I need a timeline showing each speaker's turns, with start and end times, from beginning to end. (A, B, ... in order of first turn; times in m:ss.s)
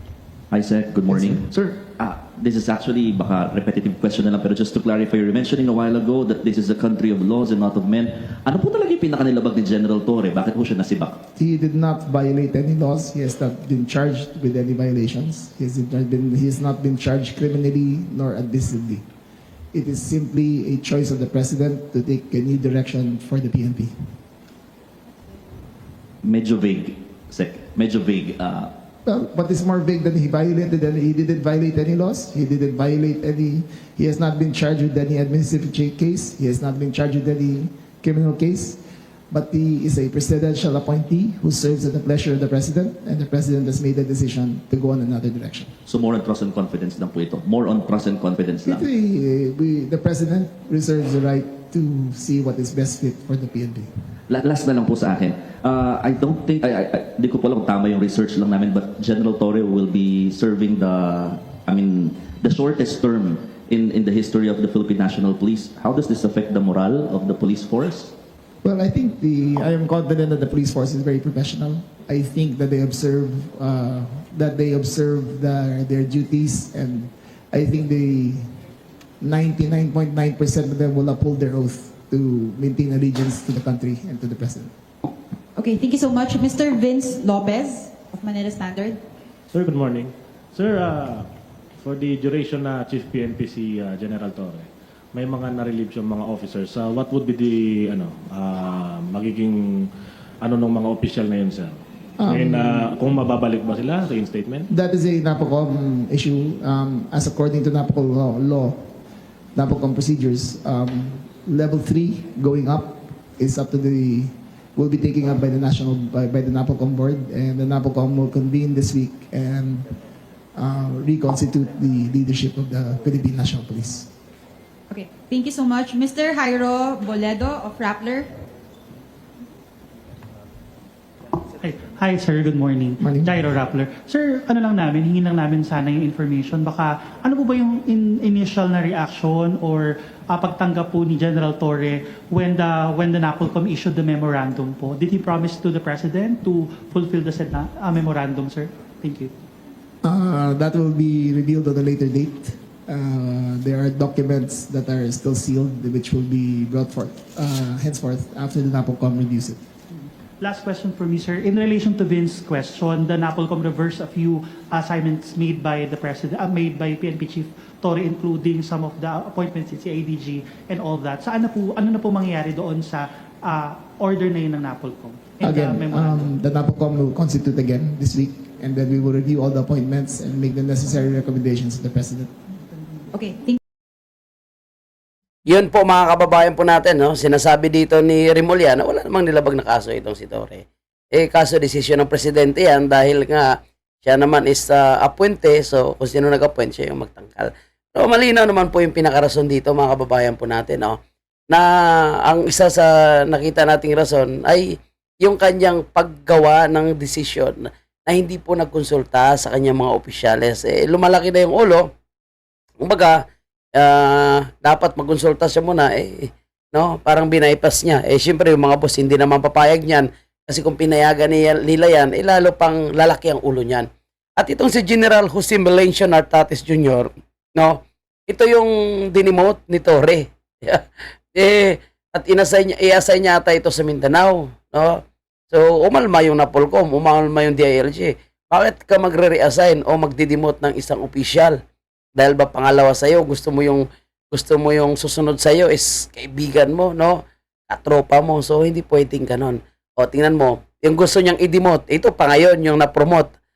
0:00.5-0:11.2 A
0:01.1-0:01.4 B
0:11.4-0:19.0 B
0:19.7-0:23.9 B
0:26.2-0:28.7 A
0:29.0-0:38.8 B
0:39.3-0:45.7 B
0:45.8-0:48.8 A
0:48.6-0:53.9 B
0:54.3-1:08.1 A
1:08.6-1:18.5 B
1:19.2-1:24.7 B
1:25.6-1:29.0 C
1:29.5-1:31.3 D
1:31.8-1:39.9 D
1:40.4-1:44.7 D
1:42.2-1:43.0 B
1:44.7-1:48.9 B
1:49.6-1:59.9 B
2:00.6-2:04.1 B
2:04.9-2:08.3 C
2:11.6-2:29.3 E
2:13.0-2:13.5 B
2:30.0-2:39.6 B
2:40.4-2:56.3 E
2:55.4-3:02.3 B
3:03.1-3:03.6 C
3:05.4-3:13.5 F
3:14.0-3:21.0 F
3:22.2-3:24.7 F
3:25.2-3:31.9 F
3:32.8-3:33.2 F
3:33.8-3:43.9 F
3:44.4-3:50.8 F
3:51.3-3:55.0 F
3:55.5-4:01.6 F
4:02.1-4:07.2 F
4:07.7-4:13.3 F